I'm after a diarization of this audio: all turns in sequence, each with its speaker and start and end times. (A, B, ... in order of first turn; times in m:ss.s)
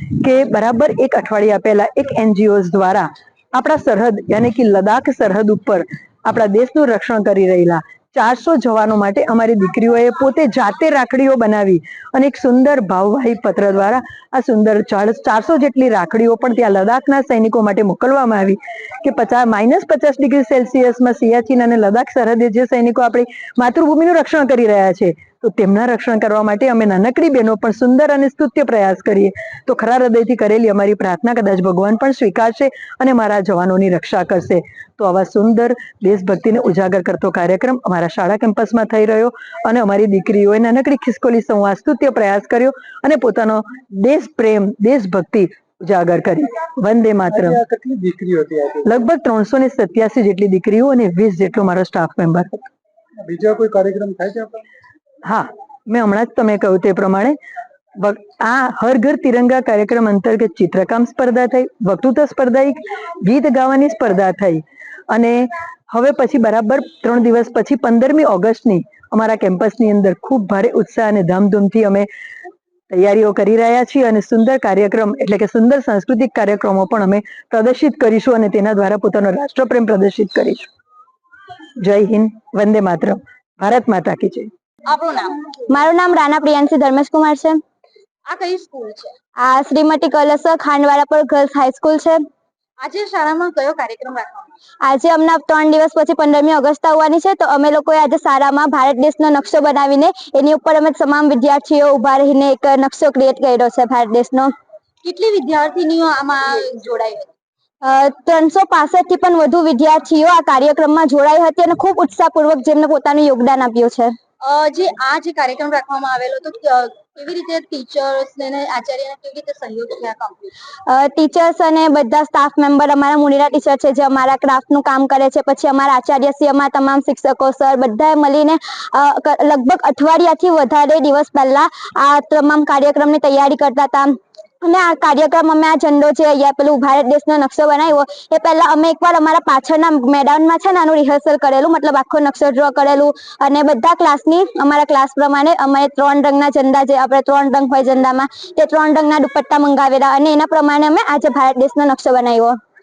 0:00.2-0:47.6 A
0:47.3-0:48.9 B
0:48.8-0:52.7 A
0:53.2-0:54.6 B
0:55.3-0:57.4 A
0:58.0-1:12.1 A
1:12.9-1:20.7 A
1:21.8-1:24.5 A
1:24.9-1:25.4 C
1:25.7-1:27.6 D
1:28.3-1:29.2 C
1:29.4-1:32.2 D
1:32.8-1:34.6 C
1:34.9-1:44.5 D
1:45.0-1:47.3 C
1:47.8-1:54.1 D
1:54.4-2:00.5 C
2:00.9-2:32.6 D